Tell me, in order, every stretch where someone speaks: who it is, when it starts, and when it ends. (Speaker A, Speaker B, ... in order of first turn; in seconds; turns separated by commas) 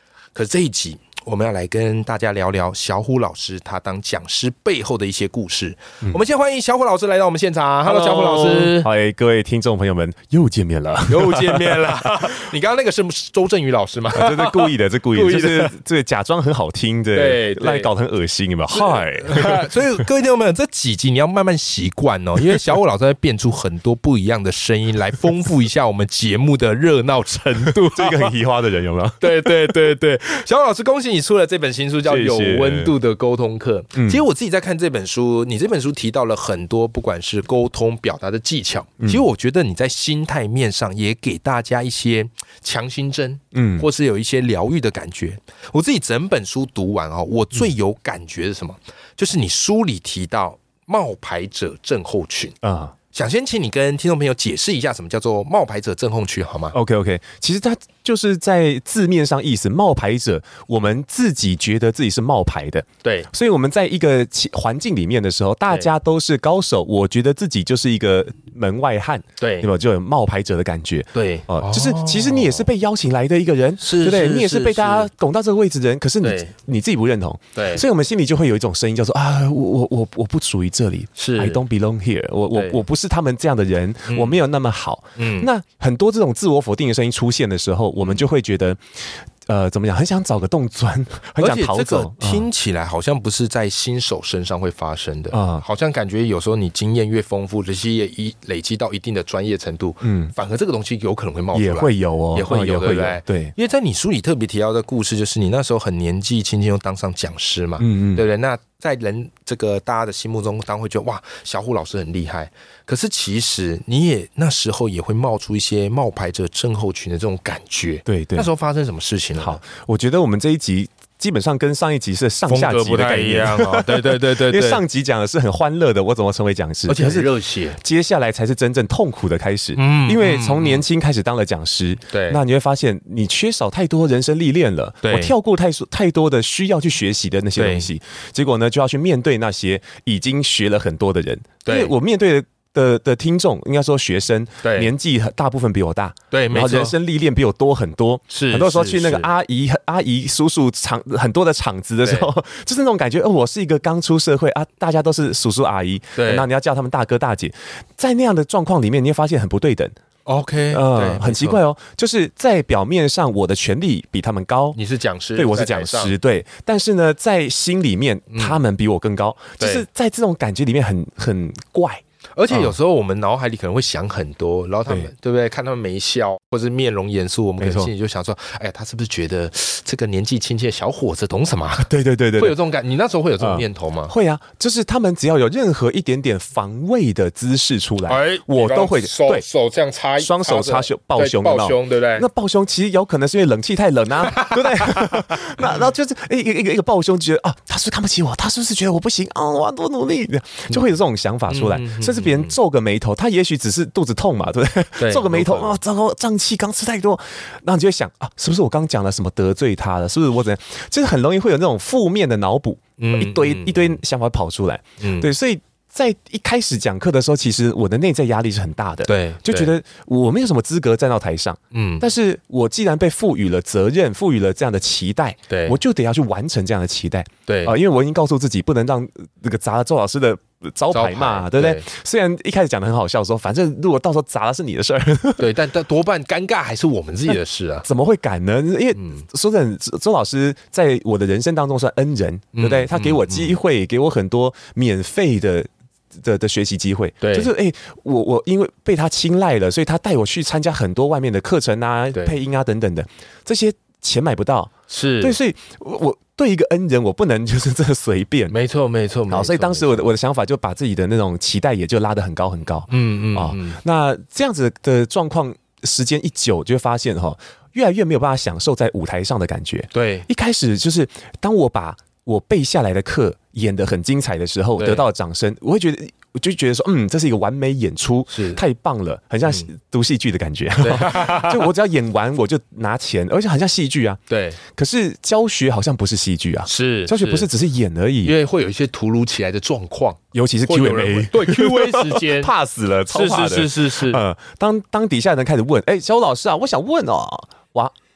Speaker A: 0.3-8.9, Speaker B: 7.8-12.1, Speaker A: 11.1-15.7, Speaker B: 14.1-20.0, Speaker A: 17.1-17.9, Speaker A: 18.7-28.3, Speaker B: 27.8-29.9, Speaker A: 29.2-52.5, Speaker B: 32.0-32.9, Speaker B: 34.0-34.2, Speaker B: 43.5-43.9, Speaker B: 52.6-52.9, Speaker A: 53.1-56.8, Speaker B: 56.7-92.5, Speaker A: 63.0-63.3, Speaker A: 69.4-69.7, Speaker A: 71.1-72.7, Speaker A: 73.8-75.1, Speaker A: 76.2-76.5, Speaker A: 77.5-77.8, Speaker A: 81.2-81.6, Speaker A: 82.5-82.8, Speaker A: 84.1-84.4, Speaker A: 85.2-85.5, Speaker A: 91.4-119.6, Speaker B: 95.3-95.6, Speaker B: 100.0-100.3, Speaker B: 101.5-103.5, Speaker B: 107.8-108.2, Speaker B: 118.0-118.5, Speaker B: 119.4-159.9, Speaker A: 122.5-124.8, Speaker A: 126.9-127.8, Speaker A: 129.7-130.8, Speaker A: 132.1-132.4, Speaker A: 135.0-135.3, Speaker A: 137.6-137.9, Speaker A: 141.6-141.9, Speaker A: 144.6-144.9, Speaker A: 146.3-146.9, Speaker A: 148.3-149.3, Speaker A: 152.0-152.3, Speaker A: 156.2-156.5, Speaker A: 160.2-161.6, Speaker B: 160.7-164.8, Speaker A: 164.7-166.1, Speaker B: 165.3-172.7, Speaker A: 168.3-168.6, Speaker A: 169.6-169.8, Speaker A: 172.4-184.1, Speaker B: 177.6-177.9, Speaker B: 181.8-182.6, Speaker B: 183.4-189.4, Speaker A: 188.1-192.2, Speaker B: 190.2-235.5, Speaker A: 194.2-195.6, Speaker A: 201.5-202.5, Speaker A: 205.0-205.8, Speaker A: 213.0-214.0, Speaker A: 215.0-215.3, Speaker A: 219.1-219.8, Speaker A: 221.7-222.1, Speaker A: 225.5-225.8, Speaker A: 227.4-227.7, Speaker A: 230.9-231.9, Speaker A: 235.4-237.9, Speaker B: 237.3-258.5, Speaker A: 239.0-239.2, Speaker A: 242.5-243.6, Speaker A: 247.2-247.5, Speaker A: 254.9-255.4, Speaker A: 258.5-260.1, Speaker B: 259.3-288.3, Speaker A: 262.9-263.8, Speaker A: 269.9-270.3, Speaker A: 274.8-275.1, Speaker A: 278.3-278.6, Speaker A: 280.8-281.7, Speaker A: 284.3-284.6, Speaker A: 286.6-287.5, Speaker A: 288.2-292.5, Speaker B: 290.3-297.9, Speaker A: 293.1-294.2